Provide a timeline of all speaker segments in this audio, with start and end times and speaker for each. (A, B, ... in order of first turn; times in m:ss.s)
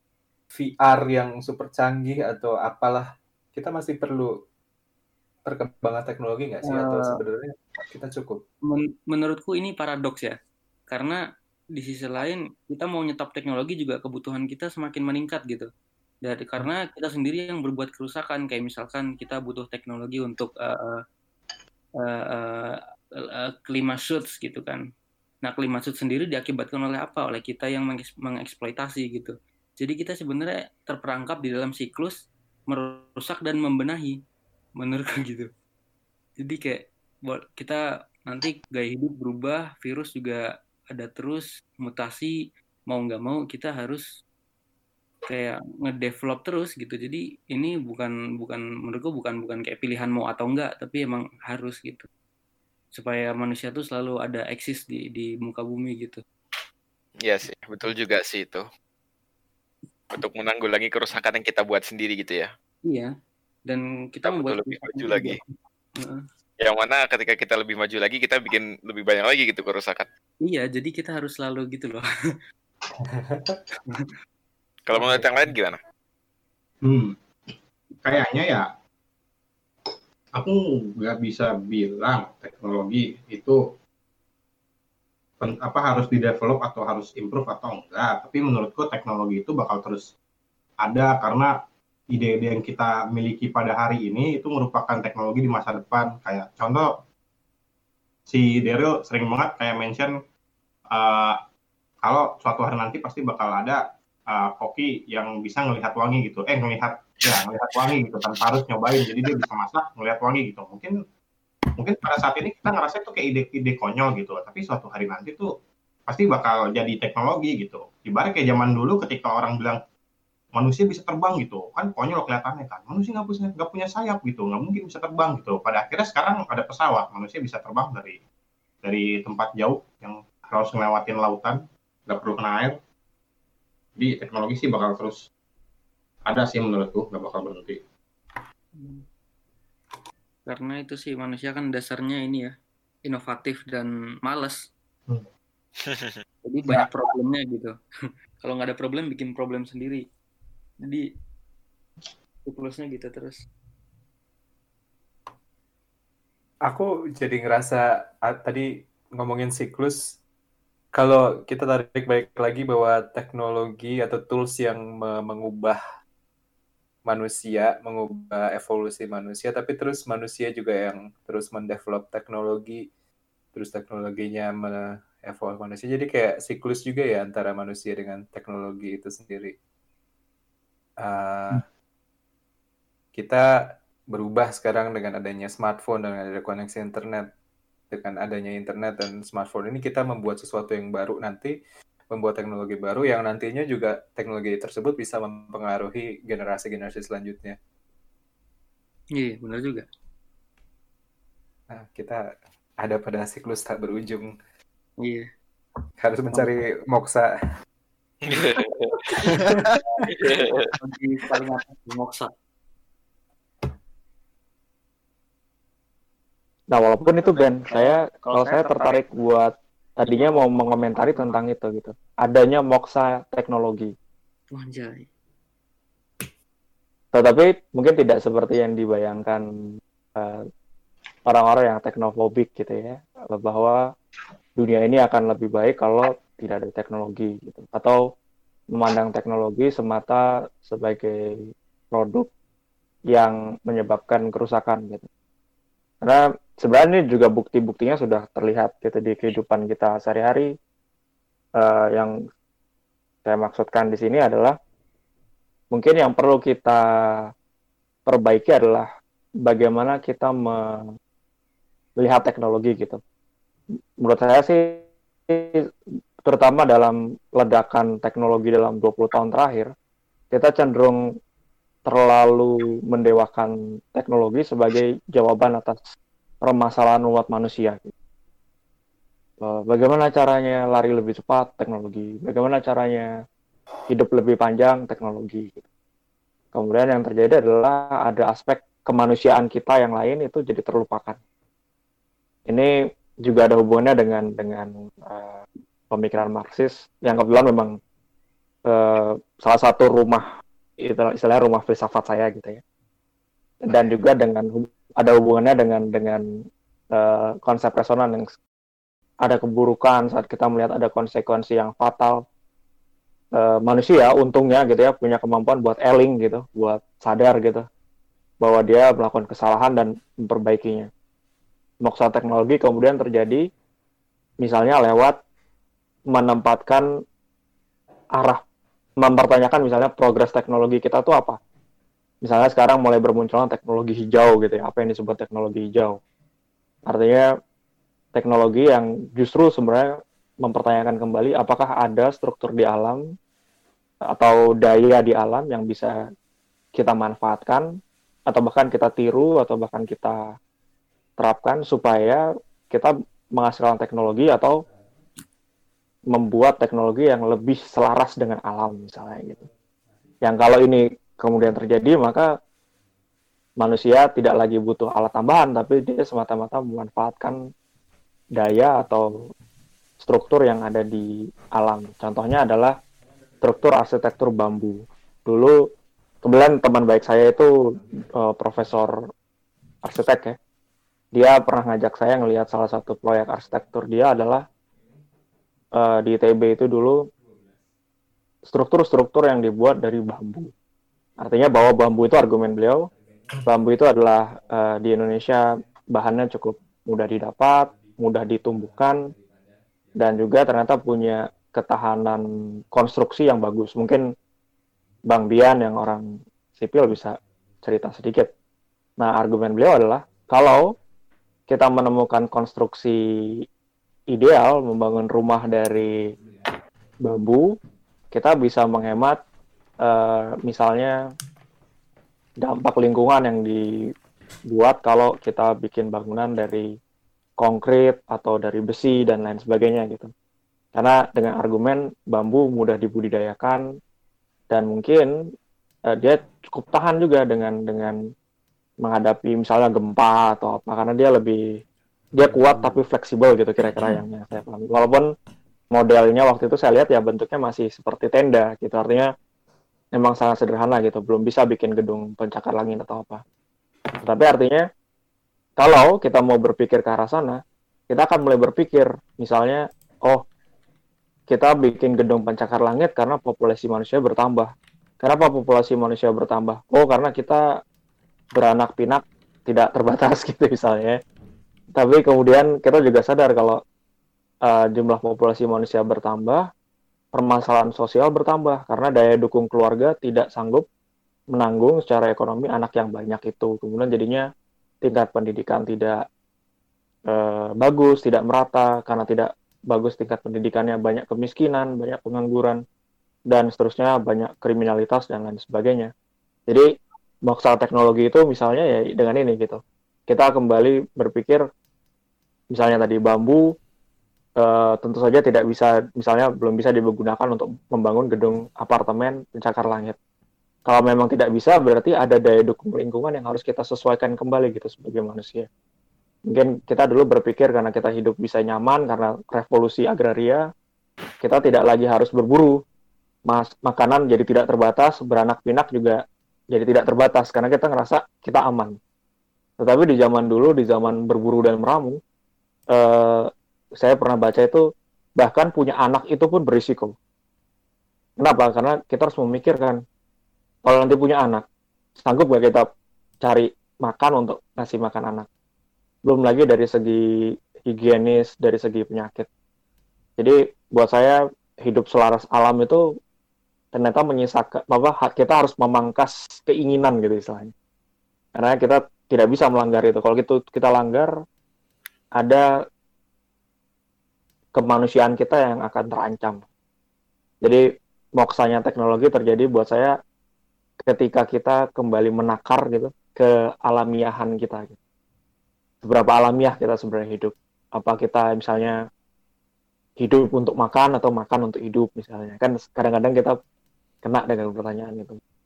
0:00.5-0:04.3 A
0:05.5-0:08.4 A
0:06.6-0:07.2 B
0:08.7-0:10.4 B
0:10.9-0:11.2 B
0:11.8-0:15.7 B
0:16.2-0:21.0 B
0:22.0-0:22.8 B
0:23.4-0:24.8 B
0:25.4-0:32.2 B
0:32.7-0:34.2 B
0:34.8-0:35.5 B
0:36.4-0:42.3 B
0:42.9-0:44.0 B
0:45.3-0:52.1 B
0:53.0-0:56.2 B
0:57.2-0:58.6 C
1:00.1-1:02.5 C
1:03.7-1:06.2 B
1:04.2-1:05.4 C
1:06.6-1:10.1 C
1:10.4-1:12.0 B
1:13.0-1:13.6 A
1:13.9-1:14.1 B
1:14.9-1:15.8 C
1:15.0-1:15.3 B
1:16.8-1:17.2 D
1:18.0-1:18.7 D
1:20.4-1:23.6 D
1:25.4-1:30.1 D
1:30.8-1:31.5 D
1:32.1-1:36.9 D
1:38.3-1:40.1 D
1:40.9-1:41.4 D
1:42.0-1:51.0 D
1:51.8-1:55.5 D
1:56.1-1:59.8 D
2:00.5-2:08.2 D
2:08.8-2:12.8 D
2:14.0-2:15.3 D
2:16.3-2:17.8 D
2:18.8-2:19.0 B
2:20.5-2:22.5 B
2:23.1-2:24.6 B
2:25.8-2:26.2 C
2:26.4-2:27.7 B
2:28.4-2:30.0 B
2:32.5-2:33.4 B
2:36.7-2:40.0 A
2:40.9-2:45.8 A
2:47.1-2:52.8 A
2:53.5-2:59.5 A
3:01.0-3:01.6 A
3:03.1-3:07.3 A
3:07.9-3:11.6 A
3:12.1-3:17.6 A
3:19.2-3:19.9 B
3:21.7-3:22.2 A
3:22.8-3:24.3 A
3:25.0-3:25.3 B
3:26.0-3:27.3 A
3:26.3-3:26.6 B
3:28.2-3:29.2 C
3:29.0-3:32.3 B
3:30.1-3:30.7 C
3:36.7-3:43.9 E
3:37.6-3:39.0 B
3:40.1-3:40.4 B
3:44.6-3:45.1 B
3:47.1-3:49.4 E
3:51.3-3:53.8 E
3:54.6-3:58.0 E
3:58.7-4:01.2 E
4:01.9-4:02.3 E
4:03.1-4:05.1 E
4:06.0-4:10.5 E
4:11.6-4:12.2 E
4:13.2-4:14.6 E
4:15.7-4:16.8 E
4:18.1-4:18.9 E
4:19.4-4:20.9 E
4:22.0-4:23.0 E
4:24.0-4:25.6 E
4:26.2-4:29.7 E
4:30.3-4:31.0 E
4:31.9-4:35.8 E
4:36.4-4:37.9 E
4:39.4-4:43.1 E
4:43.9-4:45.6 E
4:46.5-4:51.2 E
4:53.2-4:57.8 E
4:58.7-5:00.3 E
5:00.8-5:02.6 E
5:03.6-5:06.2 E
5:06.9-5:08.3 E
5:09.2-5:12.2 E
5:13.4-5:17.6 E
5:18.4-5:20.9 E
5:21.8-5:23.4 E
5:24.4-5:25.2 E
5:26.1-5:26.9 E
5:28.2-5:28.4 E
5:29.0-5:31.4 E
5:32.2-5:36.0 E
5:36.9-5:37.3 E
5:38.2-5:43.0 E
5:44.1-5:45.9 E
5:46.8-5:47.7 E
5:48.3-5:50.2 E
5:51.2-5:54.6 E
5:56.1-5:59.5 E
6:00.2-6:02.3 E
6:03.6-6:07.4 E
6:08.4-6:09.1 E
6:10.0-6:12.8 E
6:13.4-6:15.7 E
6:16.2-6:19.0 E
6:19.8-6:20.4 E
6:21.1-6:24.4 E
6:25.7-6:27.1 E
6:28.5-6:30.5 E
6:31.2-6:32.9 E
6:33.4-6:39.0 E
6:40.0-6:44.1 E
6:45.1-6:48.3 E
6:49.0-6:50.7 E
6:51.5-6:53.0 E
6:54.1-6:56.1 E
6:57.0-6:57.6 E
6:58.1-6:59.2 E
6:59.8-7:01.0 E
7:02.4-7:03.6 E
7:04.5-7:06.7 E
7:07.4-7:10.1 E
7:10.8-7:13.6 E
7:14.5-7:15.1 E
7:15.9-7:18.0 E
7:18.8-7:21.4 E
7:22.2-7:25.1 E
7:25.7-7:29.1 E
7:30.0-7:33.2 E
7:34.0-7:34.7 E
7:35.6-7:40.2 E
7:41.3-7:47.4 E
7:48.3-7:51.0 E
7:51.8-7:53.6 E
7:54.4-7:56.5 E
7:57.1-8:00.7 E
8:01.3-8:04.3 E
8:04.8-8:06.0 E
8:07.1-8:12.6 E
8:13.3-8:15.9 E
8:17.3-8:21.4 E
8:22.5-8:23.5 E
8:24.4-8:30.0 E
8:30.7-8:35.5 E
8:36.3-8:40.4 E
8:41.2-8:42.6 E
8:43.3-8:46.0 E
8:46.5-8:48.8 E
8:49.6-8:52.0 E
8:52.7-8:54.6 E
8:55.2-8:57.0 E
8:58.2-8:59.8 E
9:00.7-9:01.4 E
9:02.0-9:02.7 E
9:03.2-9:05.3 E
9:06.1-9:07.0 E
9:07.7-9:09.3 E
9:10.2-9:12.8 E
9:13.7-9:17.5 E
9:18.4-9:21.1 E
9:22.2-9:22.5 E
9:24.6-9:26.4 E
9:28.2-9:30.0 E
9:30.9-9:34.8 E
9:35.8-9:38.8 E
9:40.0-9:43.4 E
9:44.0-9:45.2 E